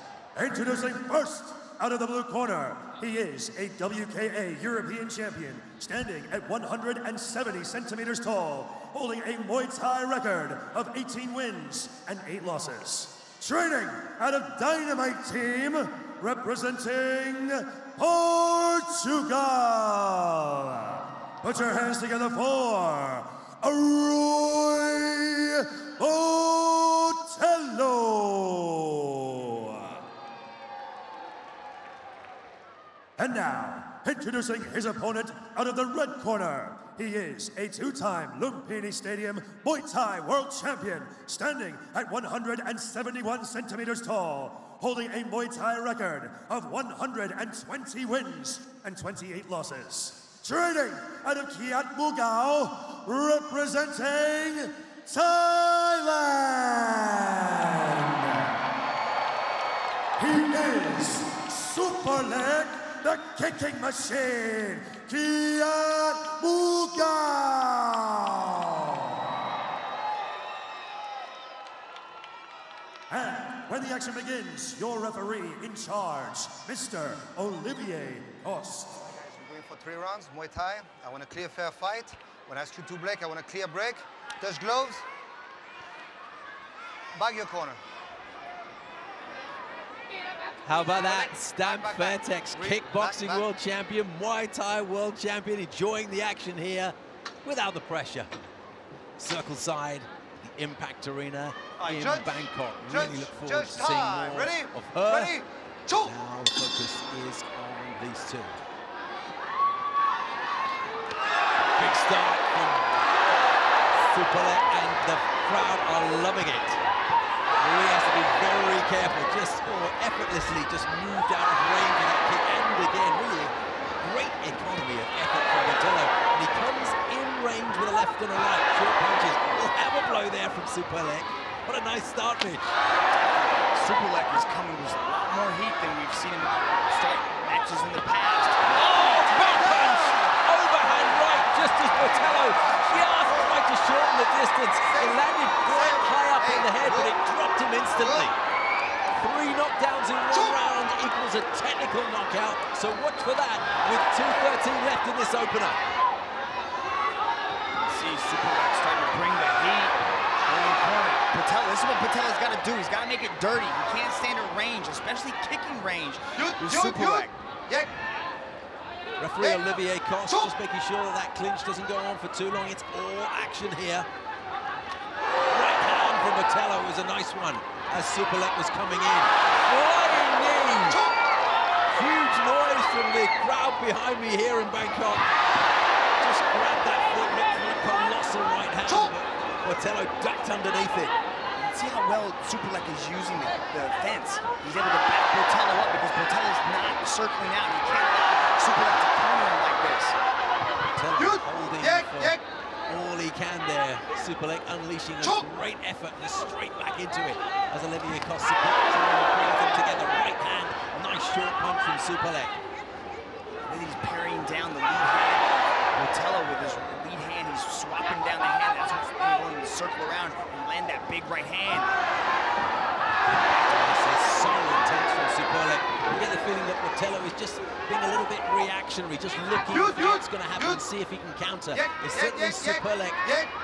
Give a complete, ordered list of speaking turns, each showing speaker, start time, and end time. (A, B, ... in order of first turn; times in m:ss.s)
0:00.4-0:30.0 A
0:33.2-0:58.5 A
1:00.2-1:09.0 A
1:13.1-1:19.0 A
1:19.0-1:25.0 B
1:27.1-1:27.8 B
1:30.6-1:38.4 C
1:31.0-1:33.4 B
1:39.2-1:48.6 C
1:41.8-1:42.2 B
1:43.4-1:44.7 B
1:51.8-1:52.8 C
1:54.1-1:56.8 C
1:57.6-2:12.8 C
2:13.1-2:18.7 D
2:18.7-2:28.4 C
2:29.2-2:35.8 C
2:37.8-2:40.0 D
2:40.5-2:47.4 D
2:49.2-2:54.1 C
2:55.5-3:01.1 C
3:02.0-3:05.3 C
3:06.2-3:11.2 C
3:11.6-3:20.2 D
3:21.0-3:32.6 C
3:33.7-3:41.9 D
3:43.7-3:53.4 C